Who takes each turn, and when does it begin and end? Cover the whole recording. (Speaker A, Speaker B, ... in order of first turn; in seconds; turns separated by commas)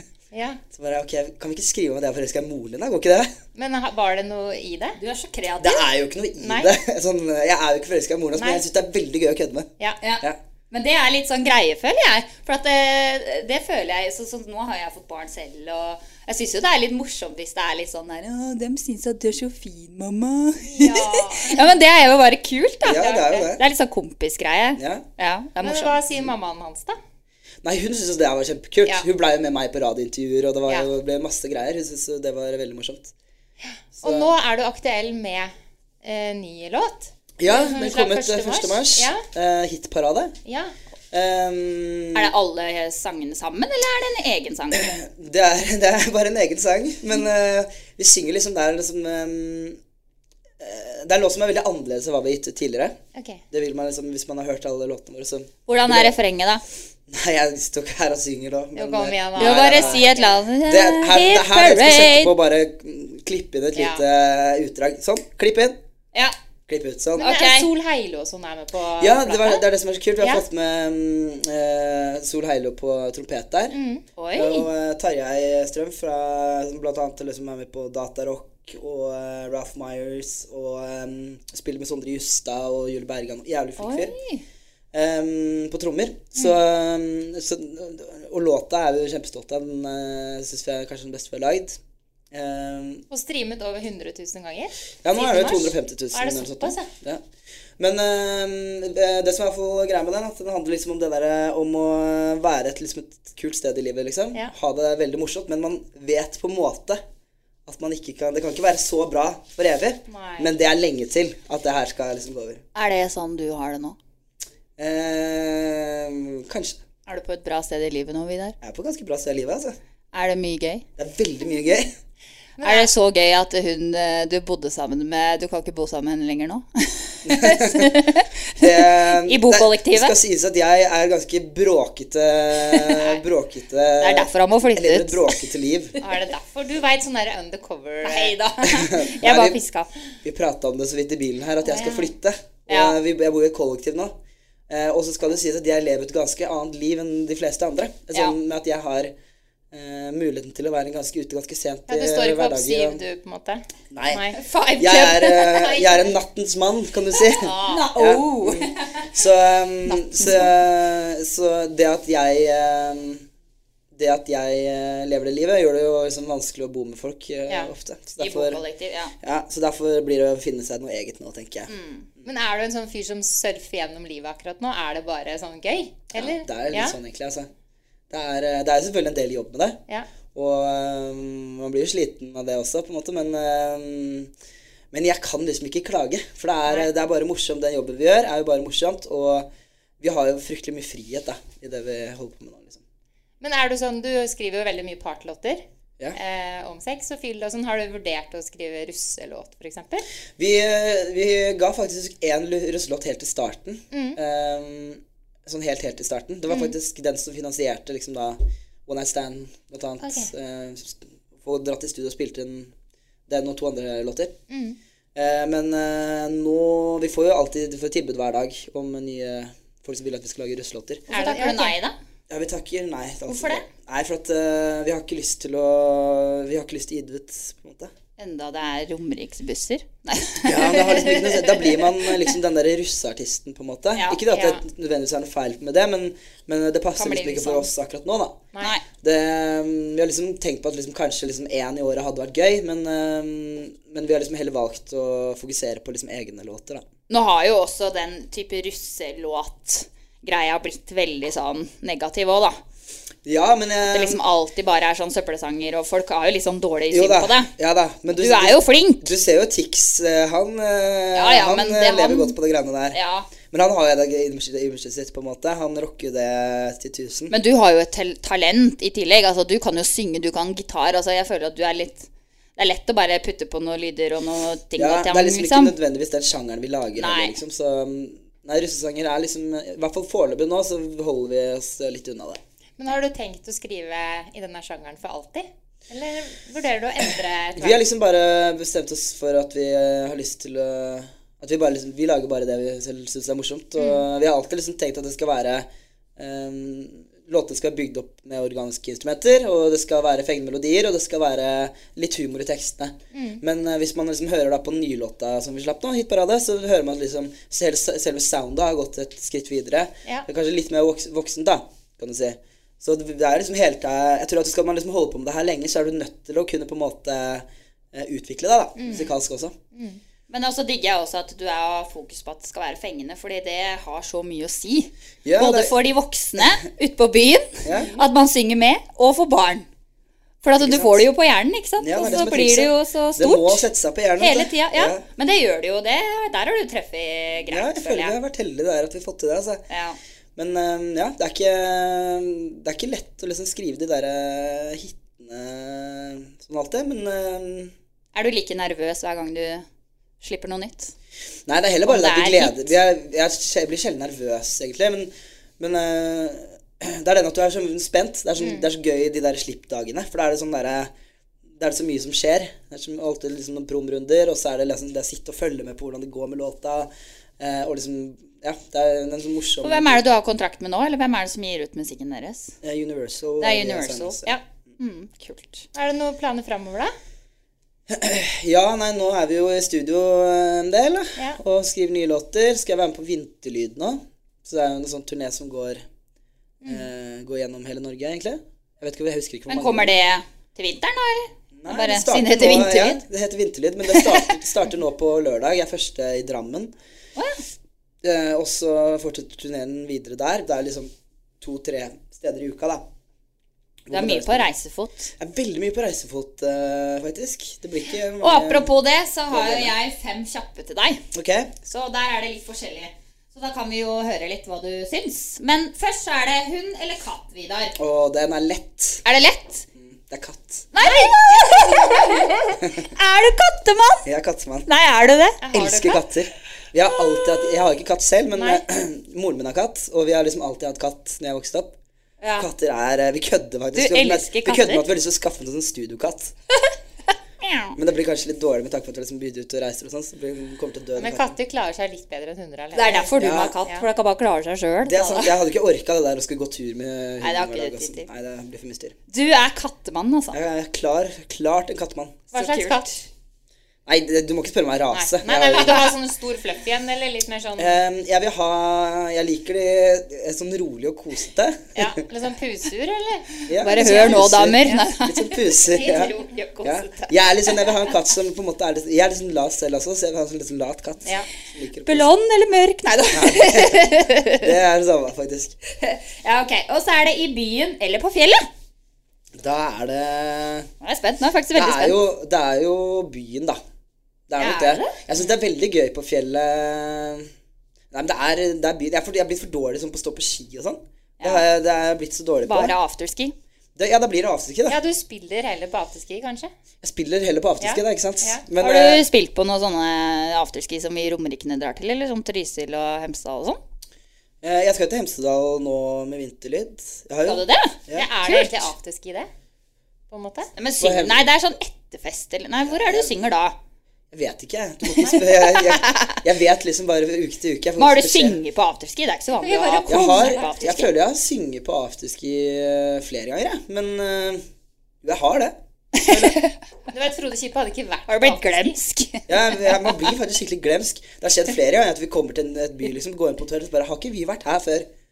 Speaker A: 0.3-0.6, Speaker B: 0.7-3.3, Speaker A: 3.5-5.0, Speaker C: 5.0-5.9, Speaker B: 5.6-9.7, Speaker A: 6.4-6.7, Speaker A: 8.3-8.6, Speaker C: 10.0-26.0, Speaker A: 20.6-21.7, Speaker B: 22.8-23.6, Speaker A: 23.0-23.5, Speaker B: 24.8-25.1, Speaker A: 25.6-27.0, Speaker B: 27.6-33.1, Speaker A: 33.6-39.2, Speaker B: 33.9-34.3, Speaker B: 37.4-40.4, Speaker A: 40.5-40.7, Speaker B: 41.1-42.3, Speaker C: 42.1-44.9, Speaker B: 44.7-49.8, Speaker B: 50.6-53.0, Speaker A: 53.1-53.4, Speaker B: 53.5-56.1, Speaker C: 55.7-56.6, Speaker B: 57.1-60.1, Speaker A: 58.8-60.3, Speaker C: 59.4-62.3, Speaker B: 60.6-65.8, Speaker A: 63.7-64.0, Speaker B: 66.7-67.3, Speaker A: 67.2-69.6, Speaker C: 67.2-67.7, Speaker B: 69.0-73.8, Speaker A: 73.7-74.0, Speaker C: 74.2-74.7, Speaker B: 74.3-84.1, Speaker C: 83.8-84.4, Speaker B: 84.9-91.8, Speaker B: 92.3-93.0, Speaker A: 93.1-96.9, Speaker B: 95.0-97.2, Speaker B: 97.8-107.0, Speaker B: 107.7-112.6, Speaker A: 110.1-110.5, Speaker C: 112.7-114.0, Speaker B: 114.8-116.8, Speaker C: 117.1-118.5, Speaker B: 118.6-119.8, Speaker C: 120.1-120.8, Speaker B: 121.0-121.9, Speaker A: 122.6-122.9, Speaker C: 122.6-130.1, Speaker B: 127.2-128.0, Speaker B: 128.6-135.9, Speaker C: 132.7-133.1, Speaker C: 134.0-135.4, Speaker A: 136.0-138.3, Speaker C: 138.0-139.9, Speaker B: 138.6-139.6, Speaker B: 140.2-144.2, Speaker A: 141.6-142.1, Speaker C: 142.7-143.0, Speaker B: 144.7-149.1, Speaker B: 149.7-153.0, Speaker A: 151.9-154.4, Speaker B: 153.9-163.2, Speaker C: 154.3-155.9, Speaker A: 157.3-157.9, Speaker C: 157.6-159.1, Speaker C: 159.8-160.5, Speaker B: 163.9-168.6, Speaker C: 168.2-169.1, Speaker B: 169.2-171.7, Speaker C: 171.7-172.1, Speaker A: 172.2-177.0, Speaker B: 176.1-177.5, Speaker B: 178.1-179.8, Speaker B: 180.3-184.3, Speaker B: 184.9-189.5, Speaker B: 190.0-192.8, Speaker A: 193.4-195.6, Speaker A: 196.1-200.1, Speaker B: 200.4-212.7, Speaker A: 203.9-204.2, Speaker A: 210.0-210.3, Speaker B: 213.3-214.4, Speaker A: 214.5-214.8, Speaker B: 215.1-221.1, Speaker C: 221.1-221.9, Speaker A: 221.1-221.8, Speaker B: 222.3-227.9, Speaker C: 223.3-223.6, Speaker C: 228.2-232.2, Speaker B: 230.4-238.4, Speaker C: 233.9-234.2, Speaker A: 234.3-234.6, Speaker C: 236.9-237.7, Speaker B: 239.0-246.8, Speaker C: 247.1-252.6, Speaker B: 253.2-254.2, Speaker C: 253.8-257.5, Speaker B: 256.9-267.3, Speaker C: 258.1-259.1, Speaker C: 261.1-262.4, Speaker C: 262.9-263.3, Speaker C: 267.3-275.7, Speaker B: 274.8-282.4, Speaker C: 277.0-277.4, Speaker A: 282.8-287.8, Speaker B: 287.6-319.5, Speaker A: 293.8-294.0, Speaker A: 303.1-303.4, Speaker A: 318.8-319.1, Speaker A: 319.7-320.0, Speaker C: 320.3-329.7, Speaker B: 325.2-325.8, Speaker B: 327.6-327.9, Speaker A: 327.7-328.0, Speaker C: 330.4-333.6, Speaker B: 330.5-331.1, Speaker B: 331.8-335.0, Speaker C: 334.2-338.1, Speaker B: 337.4-339.6, Speaker C: 339.7-340.0, Speaker B: 340.4-347.7, Speaker C: 348.1-349.6, Speaker C: 350.2-350.9, Speaker B: 351.5-360.9, Speaker C: 351.8-352.7, Speaker A: 358.4-358.6, Speaker B: 361.6-370.0, Speaker C: 369.6-372.5, Speaker B: 372.6-374.3, Speaker C: 373.4-374.2, Speaker C: 374.8-375.6, Speaker A: 375.7-376.9, Speaker B: 377.9-385.8, Speaker B: 386.6-389.9, Speaker C: 389.5-393.0, Speaker B: 391.6-396.7, Speaker C: 393.9-394.3, Speaker C: 397.2-397.4, Speaker B: 398.0-402.9, Speaker B: 403.9-404.5, Speaker C: 403.9-405.1, Speaker B: 405.2-408.7, Speaker C: 408.2-411.0, Speaker B: 409.3-409.8, Speaker B: 411.1-411.5, Speaker C: 411.6-417.7, Speaker B: 417.8-419.0, Speaker C: 419.0-419.6, Speaker B: 419.7-420.7, Speaker C: 420.7-424.1, Speaker A: 420.8-422.4, Speaker B: 422.6-422.9, Speaker B: 424.0-424.7, Speaker C: 424.6-425.4, Speaker A: 425.4-426.0, Speaker B: 425.5-431.7, Speaker A: 428.4-428.6, Speaker B: 432.4-436.3, Speaker C: 433.7-434.9, Speaker C: 437.4-437.8, Speaker B: 437.7-441.3, Speaker A: 441.0-443.8, Speaker C: 442.7-445.3, Speaker B: 443.2-443.6, Speaker B: 444.8-448.9, Speaker C: 447.2-448.1, Speaker C: 449.1-450.4, Speaker B: 450.3-452.2, Speaker C: 452.3-453.0, Speaker A: 452.3-453.0, Speaker B: 453.9-455.9, Speaker A: 454.9-457.8, Speaker B: 457.6-462.0, Speaker A: 461.7-464.8, Speaker B: 463.5-472.1, Speaker C: 463.6-467.5, Speaker A: 465.7-466.3, Speaker C: 471.9-474.5, Speaker B: 473.1-473.9, Speaker B: 474.4-475.5, Speaker C: 475.8-478.5, Speaker B: 479.3-480.7, Speaker C: 480.8-482.0, Speaker B: 481.5-483.6, Speaker B: 484.3-487.3, Speaker C: 484.4-485.0, Speaker B: 487.9-492.7, Speaker C: 492.4-493.3, Speaker B: 493.8-494.8, Speaker A: 494.7-496.5, Speaker B: 496.8-499.0, Speaker A: 497.6-498.4, Speaker C: 498.6-503.6, Speaker B: 504.4-508.1, Speaker C: 507.2-508.7, Speaker A: 507.9-509.3, Speaker A: 510.1-510.5, Speaker C: 510.6-513.5, Speaker B: 510.8-511.3, Speaker B: 512.7-513.1, Speaker B: 514.1-518.4, Speaker C: 515.0-516.2, Speaker C: 517.8-520.9, Speaker A: 519.4-520.6, Speaker B: 519.9-524.4, Speaker B: 525.0-526.4, Speaker C: 526.0-526.5, Speaker A: 526.9-528.8, Speaker C: 528.1-530.1, Speaker B: 529.3-534.9